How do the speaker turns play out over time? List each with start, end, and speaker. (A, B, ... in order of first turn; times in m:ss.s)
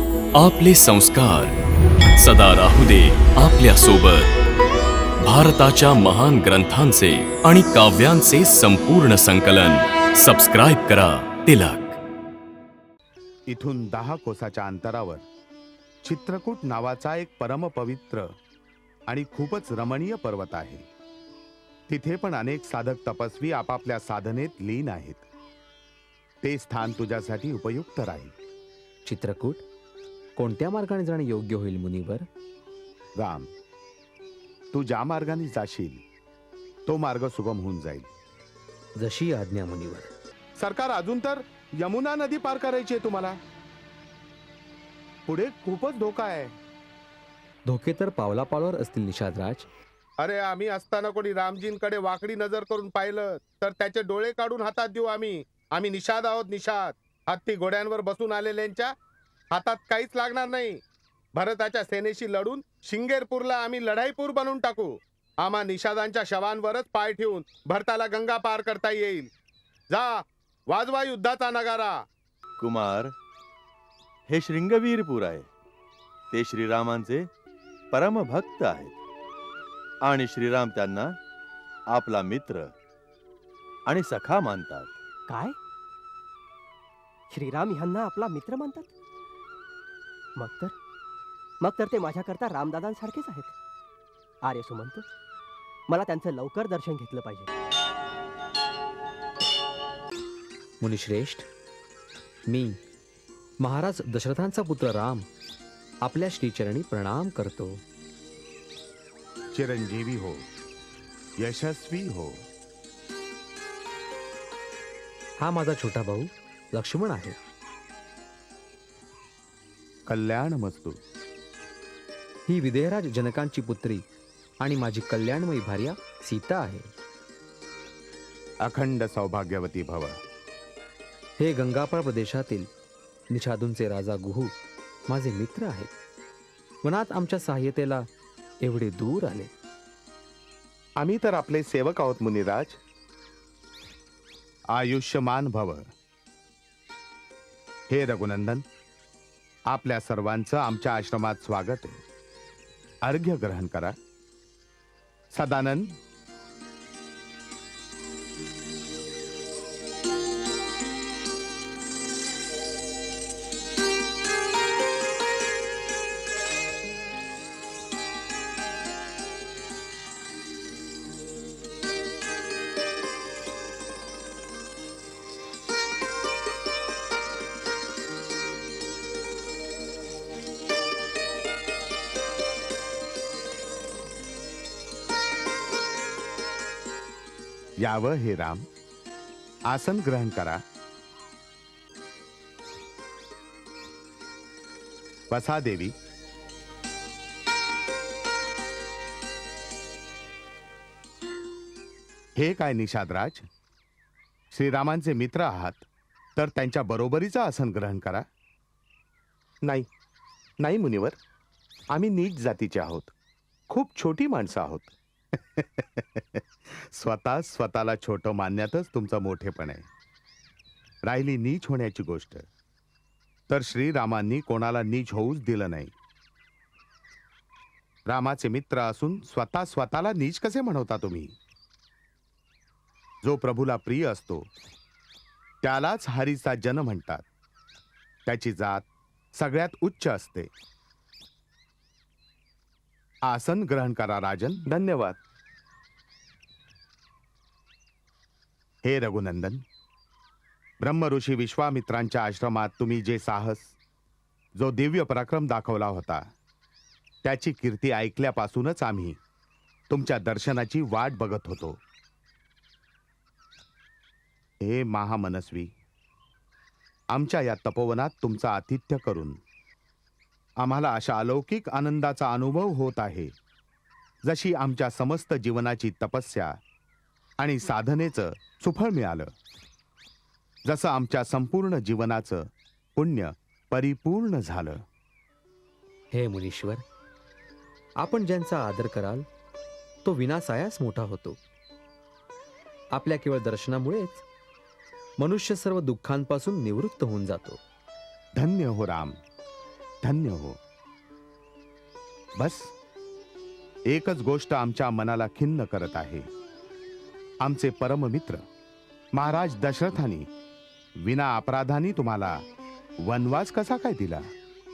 0:00.3-0:01.6 A
0:02.2-0:04.3 A
0:05.2-0:12.0 A
0:13.5-0:15.2 B
0:16.0-0:18.4 B
0:19.1-0:20.9 B
0:21.9-0:25.3 B
0:26.4-0:28.4 B
0:29.0-0:29.6 C
0:30.4-0:32.3 C
0:33.2-0:33.5 B
0:34.7-0:36.0 B
0:36.9-0:38.1 B
0:39.0-0:40.1 C
0:40.6-0:43.4 B
0:45.3-0:46.6 B
0:47.7-0:49.7 C
0:50.2-0:58.9 B
0:59.5-1:00.8 B
1:01.4-1:09.3 B
1:09.9-1:12.0 B
1:12.6-1:13.1 D
1:14.3-1:15.5 D
1:16.3-1:17.3 D
1:17.9-1:19.0 D
1:20.0-1:21.2 D
1:21.9-1:22.7 D
1:23.9-1:24.9 D
1:25.3-1:25.6 E
1:27.3-1:28.9 E
1:30.4-1:30.7 E
1:31.6-1:33.5 E
1:34.4-1:35.0 E
1:35.9-1:37.5 E
1:40.8-1:41.5 C
1:42.5-1:42.8 C
1:43.6-1:45.3 C
1:46.0-1:47.8 C
1:49.5-1:50.5 B
1:51.4-1:52.5 B
1:55.4-1:57.4 C
2:00.1-2:01.0 B
2:02.5-2:04.0 C
2:04.6-2:06.9 C
2:08.6-2:10.2 B
2:11.4-2:12.7 C
2:13.3-2:14.5 C
2:15.1-2:15.9 C
2:16.8-2:18.1 C
2:18.6-2:19.5 C
2:21.0-2:22.8 B
2:24.7-2:25.9 B
2:27.9-2:28.6 B
2:29.7-2:32.0 B
2:33.0-2:34.0 B
2:35.3-2:36.0 B
3:07.8-3:08.7 B
3:09.7-3:10.6 B
3:15.3-3:16.0 B
3:22.4-3:23.5 B
3:24.5-3:28.3 B
3:29.6-3:29.9 B
3:30.6-3:31.2 B
3:31.9-3:33.1 B
3:33.7-3:39.9 B
3:41.0-3:42.5 B
3:43.5-3:46.0 B
3:48.1-3:51.4 B
3:53.2-3:54.5 B
3:55.6-3:57.3 B
3:58.3-4:00.5 B
4:03.2-4:05.2 B
4:08.8-4:09.6 B
4:10.8-4:13.8 B
4:14.6-4:16.3 B
4:17.2-4:19.2 B
4:19.9-4:21.8 B
4:24.6-4:25.7 B
4:27.1-4:29.4 B
4:30.6-4:33.3 B
4:34.2-4:36.6 B
4:37.4-4:39.3 B
4:40.6-4:44.8 B
4:46.1-4:46.8 C
4:48.0-4:49.3 C
4:50.0-4:51.4 C
4:52.9-4:54.2 C
4:55.2-4:57.6 C
4:58.4-4:59.2 B
5:00.0-5:00.6 B
5:02.4-5:02.7 B
5:03.9-5:06.3 B
5:07.4-5:08.4 B
5:09.1-5:10.3 B
5:11.0-5:12.4 B
5:13.0-5:14.3 B